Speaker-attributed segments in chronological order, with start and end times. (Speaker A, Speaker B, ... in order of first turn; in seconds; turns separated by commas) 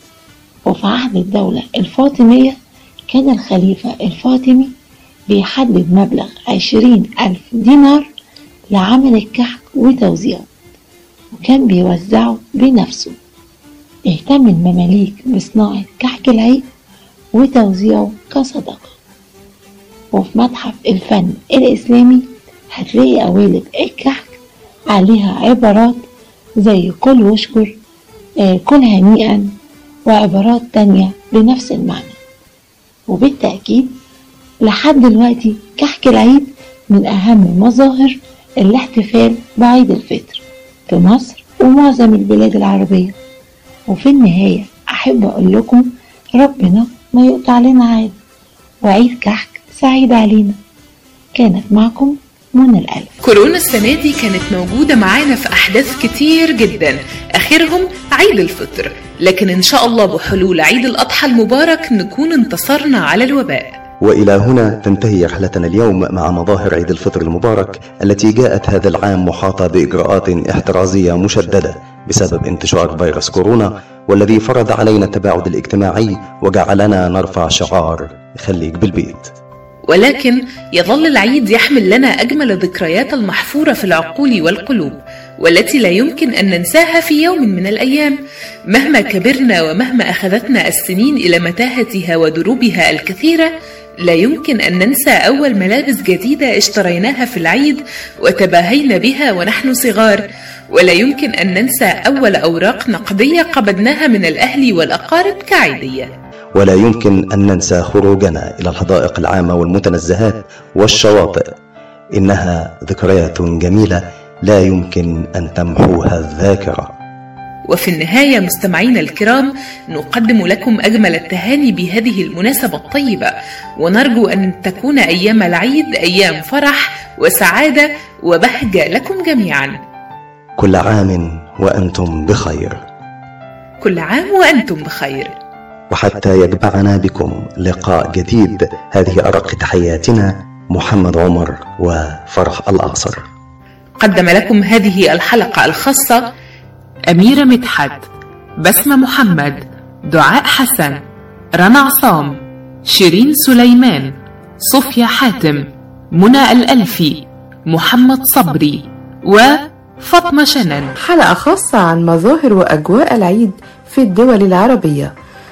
Speaker A: 0.7-2.6, Speaker A: 3.1-4.7, Speaker A: 5.3-8.1, Speaker A: 8.7-10.5, Speaker A: 11.3-13.2, Speaker A: 14.1-16.7, Speaker A: 17.3-18.9, Speaker A: 20.1-24.4, Speaker A: 24.9-26.1, Speaker A: 26.6-27.8, Speaker A: 28.4-29.5, Speaker A: 30.1-32.2, Speaker A: 33.1-33.9, Speaker A: 34.6-43.1, Speaker A: 43.9-48.1, Speaker A: 48.8-50.6, Speaker A: 51.4-53.1, Speaker B: 53.2-63.8, Speaker C: 64.0-79.3, Speaker B: 79.9-88.2, Speaker B: 88.7-93.5, Speaker B: 94.0-106.1, Speaker C: 106.5-111.4, Speaker C: 112.2-116.9, Speaker B: 117.7-129.8, Speaker C: 130.6-132.8, Speaker B: 133.8-135.3, Speaker C: 135.9-143.2, Speaker B: 144.0-146.3, Speaker B: 147.1-148.0, Speaker B: 148.6-151.0, Speaker B: 151.6-160.9, Speaker D: 161.0-165.1